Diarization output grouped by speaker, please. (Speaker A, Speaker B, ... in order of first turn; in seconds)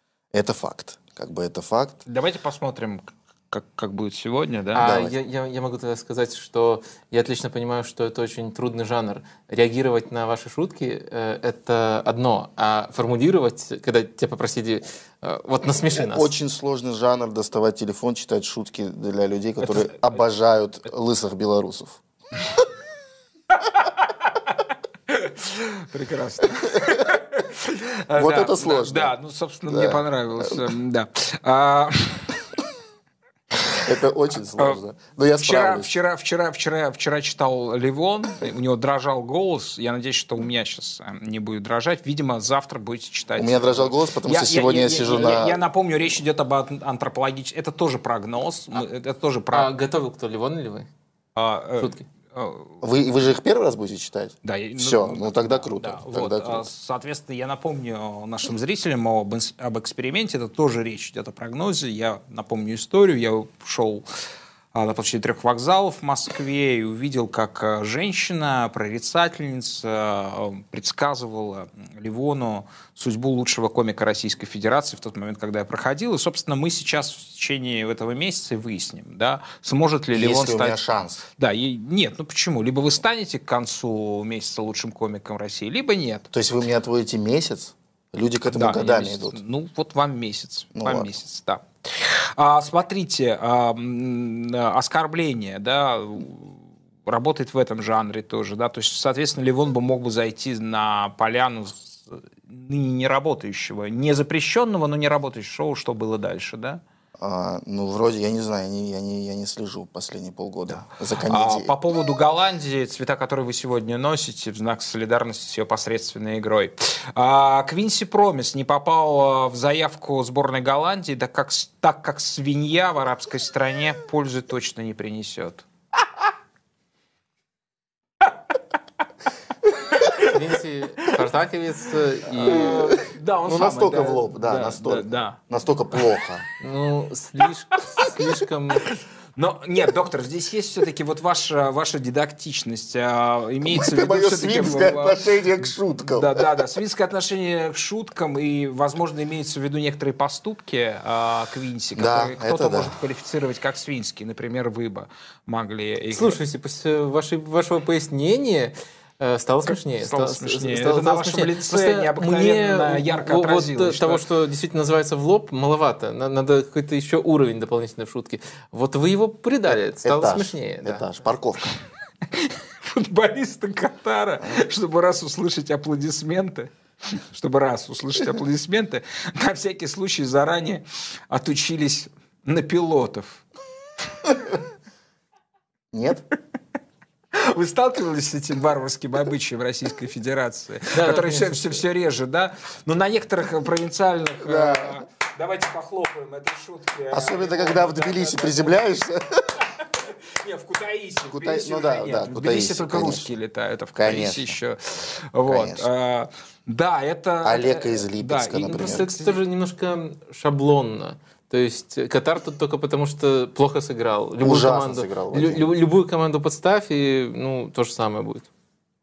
Speaker A: 0.3-2.0, 4.8-5.1, 16.0-22.0, 28.2-29.1, 29.7-30.0, 33.8-35.9, 43.4-45.6, 52.8-56.7, 80.1-81.2, 86.3-89.4, 90.7-91.1, 107.2-111.7, 132.6-136.4, 143.7-146.4, 151.9-152.9, 170.0-171.8, 185.9-186.2, 194.4-195.0, 197.1-199.4, 201.3-203.3, 203.9-204.6, 205.4-205.8, 207.4-209.1, 214.4-215.7
Speaker B: 2.0-4.9, 19.6-20.2, 23.8-24.5, 25.1-32.3, 35.4-49.7, 51.3-52.8, 54.4-64.0, 64.7-80.8, 81.4-86.3, 88.5-106.8, 111.2-125.7, 132.4-135.4, 139.3-145.4, 146.0-156.4, 159.6-164.2, 172.3-183.4, 187.3-198.8, 199.8-209.4
Speaker C: 4.7-16.3, 49.5-50.9, 51.8-52.0, 130.2-132.9, 136.6-138.9, 156.1-171.0, 190.9-191.8, 208.7-218.5